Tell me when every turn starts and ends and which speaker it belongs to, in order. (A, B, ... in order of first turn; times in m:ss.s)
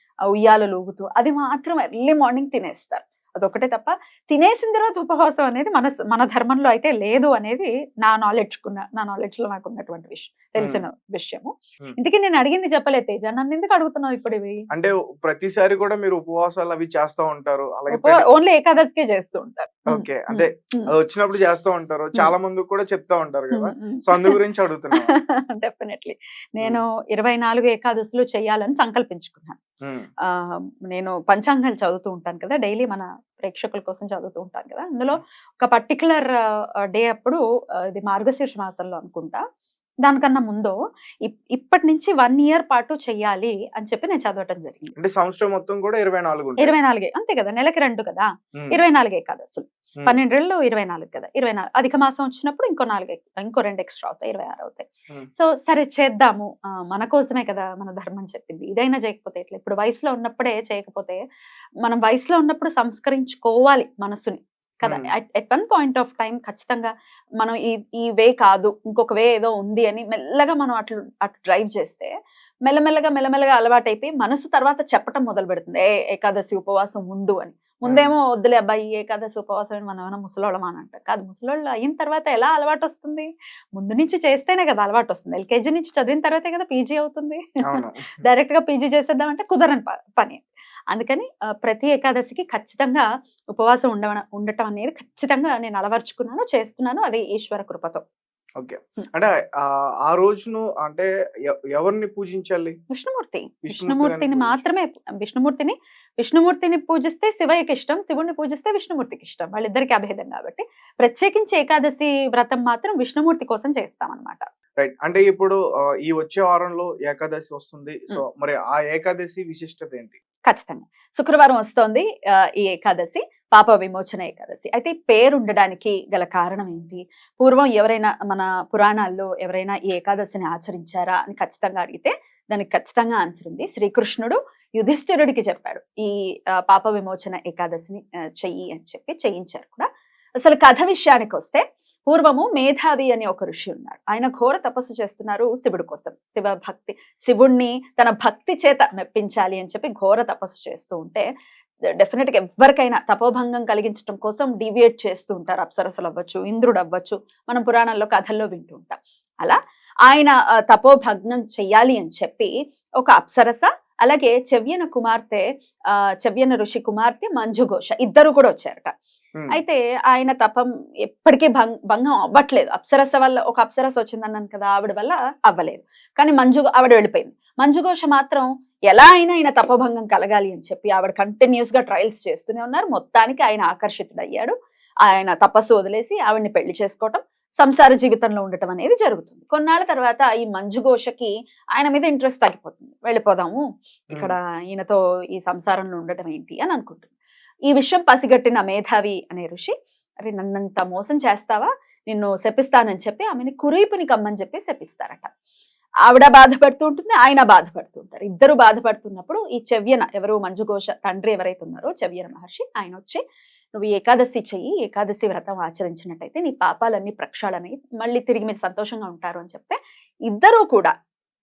0:00.4-0:14.6 A
0:10.6-0:10.8 B
0:14.7-0:18.3 B
0:17.9-0:20.9 A
0:19.9-0:25.1 B
0:23.5-0:24.4 A
0:25.0-0:29.6 A
0:29.8-0:30.1 B
0:30.3-0:36.3 A
0:36.9-0:39.4 A
0:40.0-0:44.9 A
0:45.0-0:46.7 B
0:46.6-0:54.9 A
0:55.4-1:01.2 A
1:01.8-1:12.1 A
1:12.7-1:38.0 A
1:17.9-1:18.1 B
1:27.6-1:28.2 B
1:38.6-1:41.1 B
1:41.7-1:42.8 B
1:42.9-1:54.4 A
1:43.6-1:44.6 B
1:54.8-2:00.2 B
2:00.5-2:19.9 A
2:20.4-2:31.3 A
2:32.0-2:48.9 A
2:49.5-3:17.1 A
3:17.7-3:19.7 A
3:20.3-3:25.3 A
3:26.1-3:33.2 A
3:33.8-3:40.9 A